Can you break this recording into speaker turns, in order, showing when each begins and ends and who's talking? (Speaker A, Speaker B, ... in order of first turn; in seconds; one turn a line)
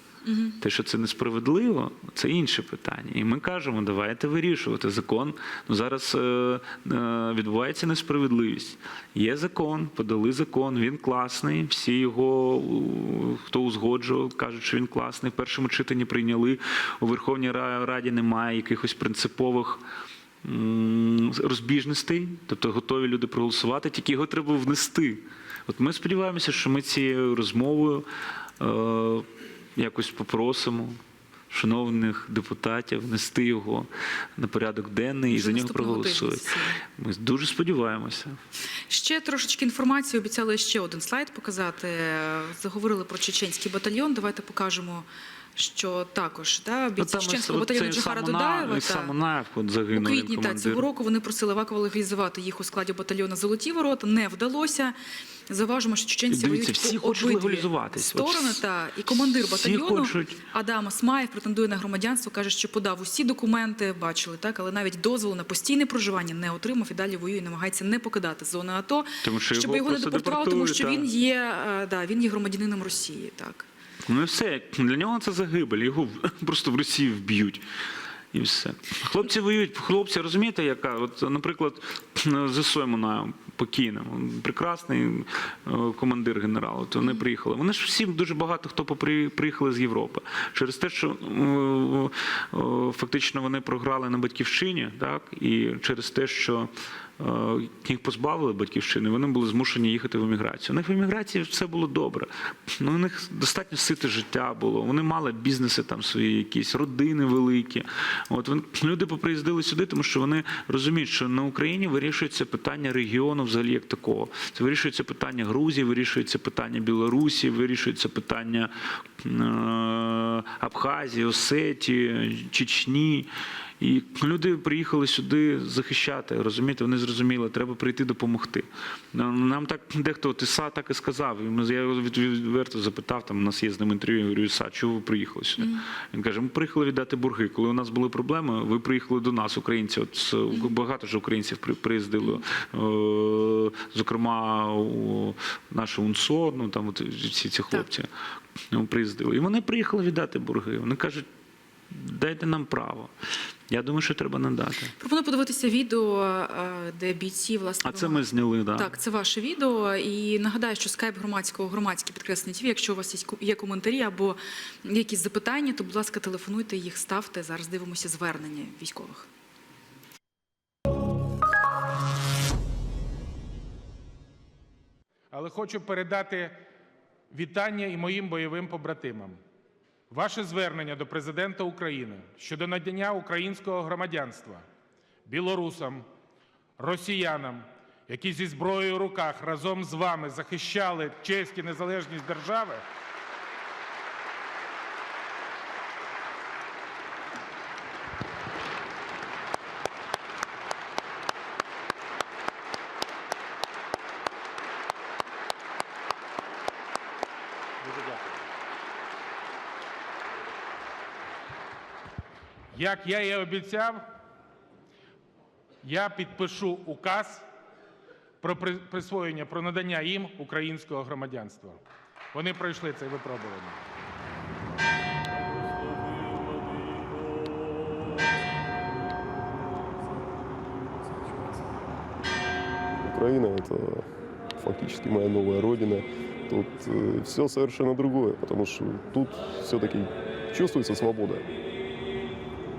Speaker A: 0.2-0.6
Speaker B: 0.6-19.8
Speaker B: 20.4-28.1
Speaker B: 28.6-31.0
Speaker B: 31.5-38.4
Speaker A: 35.3-36.8
Speaker A: 38.9-49.1
Speaker B: 47.0-50.9
Speaker A: 50.0-55.0
Speaker A: 55.5-73.7
Speaker B: 56.3-60.4
Speaker B: 69.2-71.1
Speaker B: 74.1-77.6
Speaker B: 78.3-148.1
Speaker A: 135.6-135.8
Speaker B: 148.7-151.3
Speaker B: 151.9-153.1
Speaker B: 153.7-154.9
Speaker A: 155.0-158.2
Speaker B: 157.8-158.9
Speaker A: 158.8-169.3
Speaker C: 175.3-176.6
Speaker C: 177.3-179.4
Speaker C: 180.1-184.7
Speaker C: 185.3-186.1
Speaker C: 186.8-192.9
Speaker C: 207.8-208.4
Speaker C: 212.7-214.1
Speaker C: 215.8-217.5
Speaker C: 218.4-221.8
Speaker C: 222.3-223.8
Speaker D: 233.0-241.4